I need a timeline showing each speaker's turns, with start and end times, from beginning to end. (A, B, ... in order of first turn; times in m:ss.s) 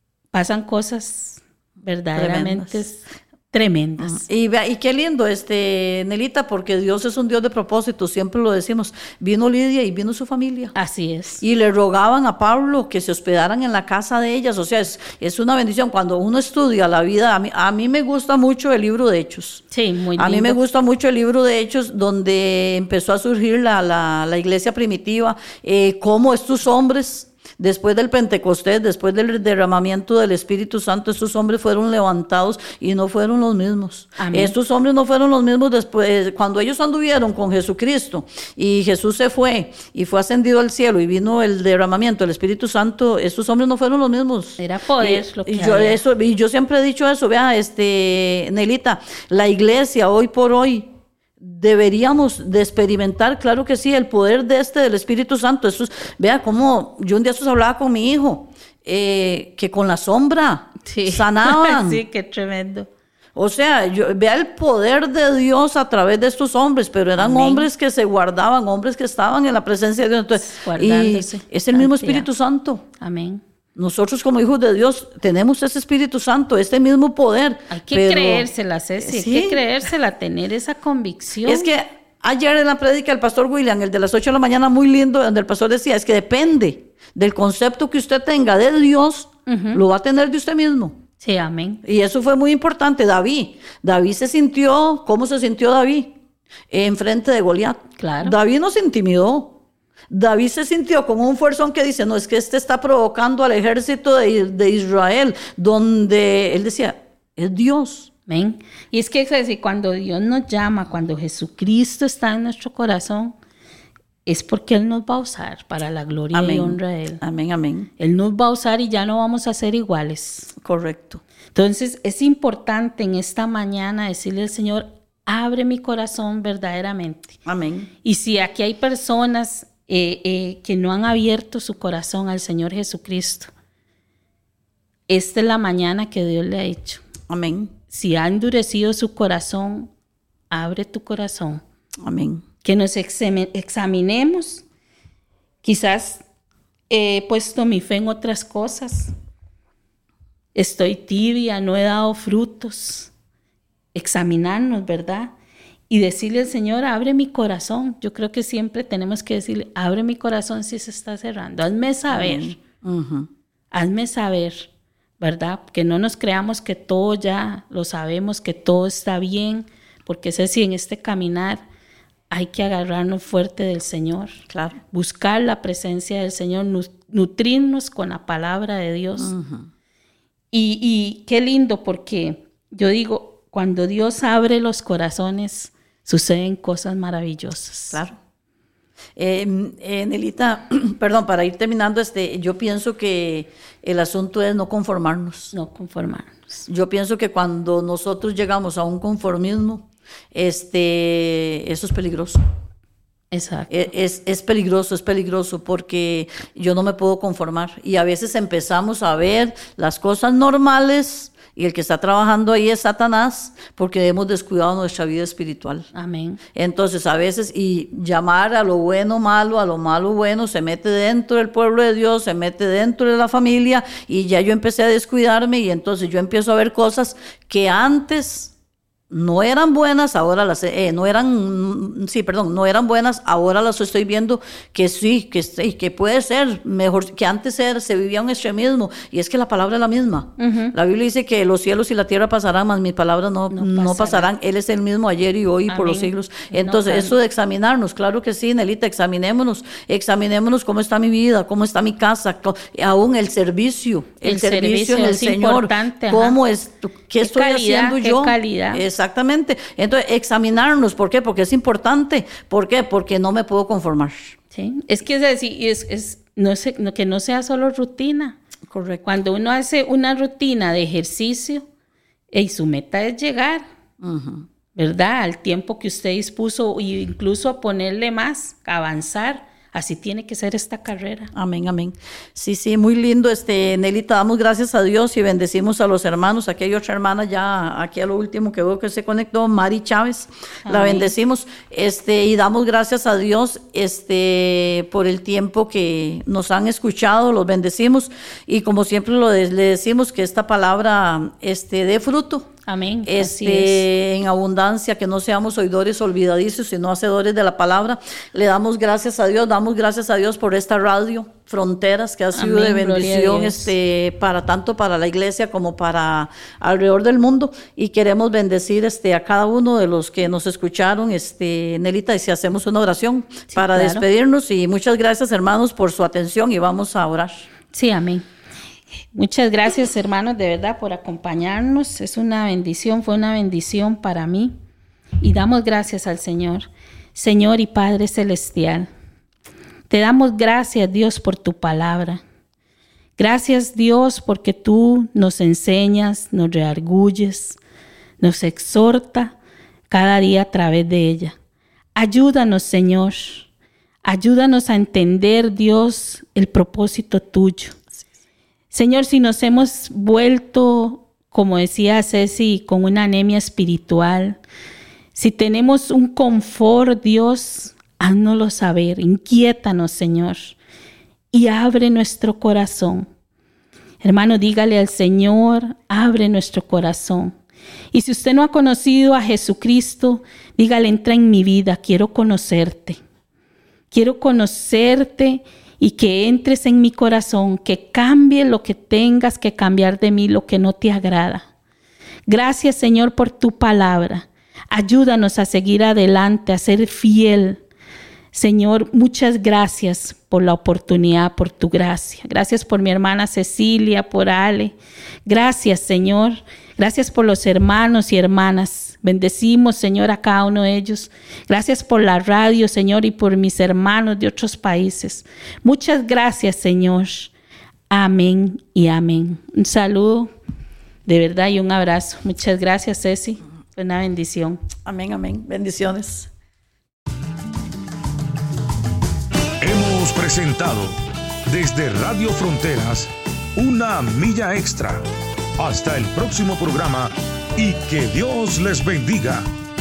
0:00.3-0:04.2 A
0:02.2-0:02.8 B
0:04.0-0:10.7 B
0:10.8-0:11.4 A
0:11.4-0:19.6 B
0:19.7-0:20.6 A
0:20.2-0:50.9 B
0:34.2-0:34.5 A
0:44.6-0:46.0 A
0:51.4-1:02.0 B
1:00.8-1:02.9 A
1:03.4-1:12.8 B
1:07.2-1:07.7 A
1:10.3-1:12.3 A
1:13.0-1:13.4 A
1:13.8-1:18.5 B
1:17.7-1:21.7 A
1:19.0-1:19.6 B
1:21.4-1:31.0 B
1:29.5-1:29.8 A
1:31.2-1:31.8 A
1:31.8-1:36.1 B
1:36.7-1:39.6 B
1:38.0-1:38.4 A
1:40.1-1:48.1 B
1:48.3-1:53.3 A
1:54.3-1:57.2 A
1:56.3-1:57.9 B
1:58.0-2:00.5 A
2:00.6-2:01.2 B
2:01.5-2:07.4 A
2:07.5-2:07.9 B
2:08.0-2:13.5 A
2:15.1-2:17.0 A
2:17.3-2:17.7 B
2:17.9-2:19.9 A
2:20.5-2:21.6 A
2:22.0-2:22.4 B
2:22.6-2:24.6 A
2:25.6-2:26.2 A
2:26.9-2:29.1 A
2:30.6-2:33.1 A
2:33.9-2:35.3 A
2:35.9-2:42.6 A
2:42.1-2:43.3 B
2:43.7-2:51.6 A
2:52.3-2:59.3 A
2:54.5-2:54.8 B
2:59.2-2:59.7 B
3:00.5-3:08.0 A
3:07.9-3:08.2 B
3:09.2-3:15.5 B
3:15.5-3:16.7 A
3:16.7-3:22.4 B
3:23.3-3:23.7 A
3:23.7-3:35.9 B
3:35.9-3:36.4 A
3:36.5-3:48.5 B
3:49.1-4:24.4 B
4:00.4-4:00.8 A
4:03.5-4:04.3 A
4:05.7-4:07.2 A
4:14.2-4:16.4 A
4:17.2-4:18.8 A
4:24.5-4:28.4 A
4:28.7-4:29.0 B
4:29.0-4:31.7 A
4:32.3-4:33.7 A
4:34.0-4:34.5 B
4:34.8-4:41.3 A
4:41.3-5:02.5 B
4:50.6-4:51.1 A
5:02.7-5:03.8 A
5:03.0-5:27.5 B
5:12.3-5:13.7 A
5:23.5-5:24.0 A
5:27.7-5:28.3 A
5:29.1-5:34.5 A
5:35.2-5:38.9 A
5:39.9-5:42.2 A
5:43.2-5:47.6 A
5:48.2-5:49.4 A
5:49.9-5:51.4 A
5:52.0-5:53.5 A
5:54.0-5:57.8 A
5:58.7-6:04.4 A
6:05.2-6:10.6 A
6:11.3-6:13.1 A
6:14.0-6:17.4 A
6:17.9-6:23.0 A
6:23.9-6:31.4 A
6:32.3-6:37.6 A
6:38.3-6:44.8 A
6:45.3-6:57.3 A
6:57.9-7:00.3 A
7:01.1-7:04.6 A
7:04.8-7:06.3 B
7:09.6-7:11.0 C
7:11.5-7:15.0 C
7:15.6-7:19.5 C